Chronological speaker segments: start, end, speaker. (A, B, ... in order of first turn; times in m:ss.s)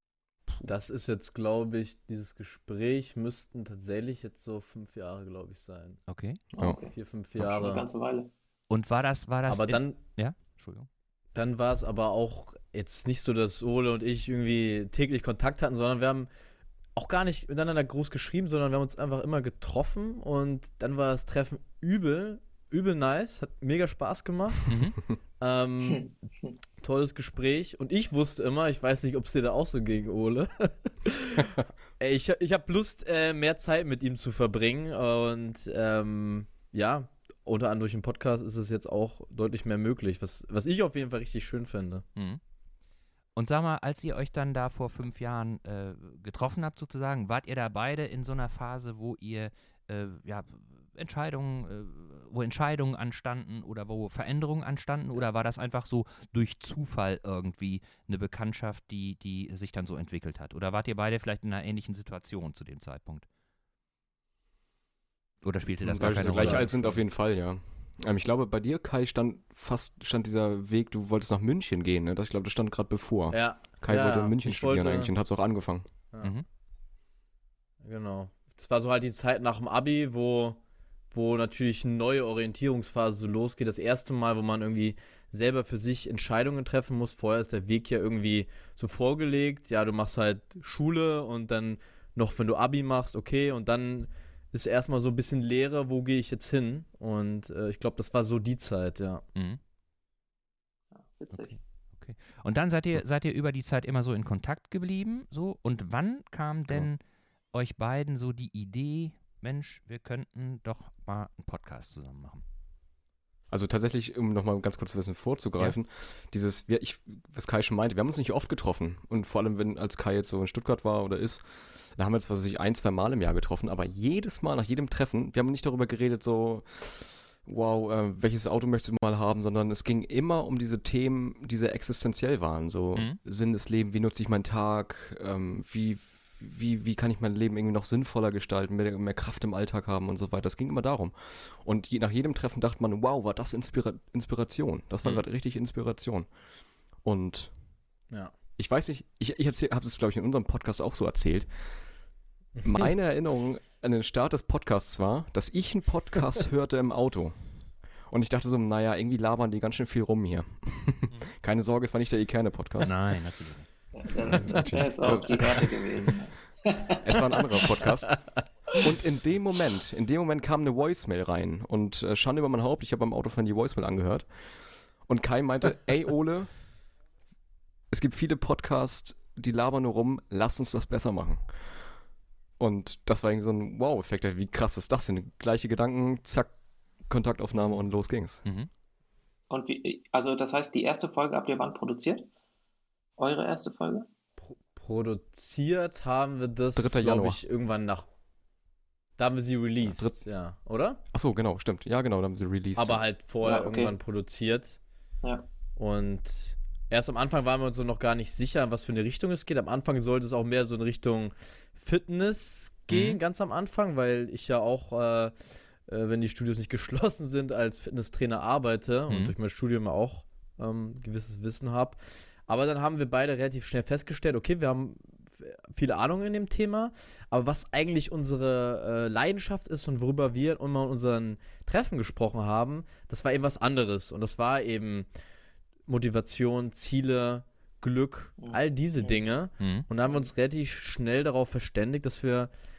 0:00.6-0:06.0 A
0:06.1-0:06.4 B
0:06.5-0:06.8 C
0:06.6-0:08.3 D
0:06.9-0:07.8 A
0:08.7-0:10.9 B
0:09.5-0:10.0 A
0:11.3-0:16.3 A
0:16.9-0:24.8 A
0:24.7-0:25.0 B
0:25.4-0:26.2 A
0:25.8-0:26.6 D
0:26.8-0:42.0 A
0:43.4-1:03.2 B
1:05.4-1:07.0 B
1:05.8-1:15.9 C
1:06.0-1:06.7 A
1:13.3-1:15.1 A
1:17.8-1:20.6 A
1:21.1-1:39.2 A
1:39.3-1:39.6 B
1:40.9-1:41.6 D
1:41.3-1:47.0 B
1:47.5-1:52.4 B
1:53.5-2:26.3 C
2:27.0-2:27.5 C
2:28.6-2:31.5 C
2:32.6-2:32.9 A
2:32.6-2:37.4 C
2:38.1-2:42.9 C
2:42.8-2:43.7 B
2:43.9-2:47.6 D
2:44.2-2:46.1 C
2:46.9-2:48.2 C
2:48.7-2:56.6 C
2:57.9-3:01.5 C
3:02.6-3:06.5 C
3:07.0-3:08.4 C
3:08.4-3:08.7 B
3:09.5-3:12.3 D
3:13.2-3:14.1 D
3:14.4-3:18.0 A
3:16.7-3:17.4 C
3:19.2-3:21.0 A
3:19.8-3:20.2 C
3:21.1-3:23.0 C
3:22.8-3:24.8 A
3:23.4-3:24.0 D
3:25.8-3:55.1 A
3:32.9-3:33.2 B
3:39.1-3:39.3 B
3:55.9-4:02.5 A
3:58.4-3:59.2 D
3:59.6-3:59.8 B
4:00.0-4:00.3 D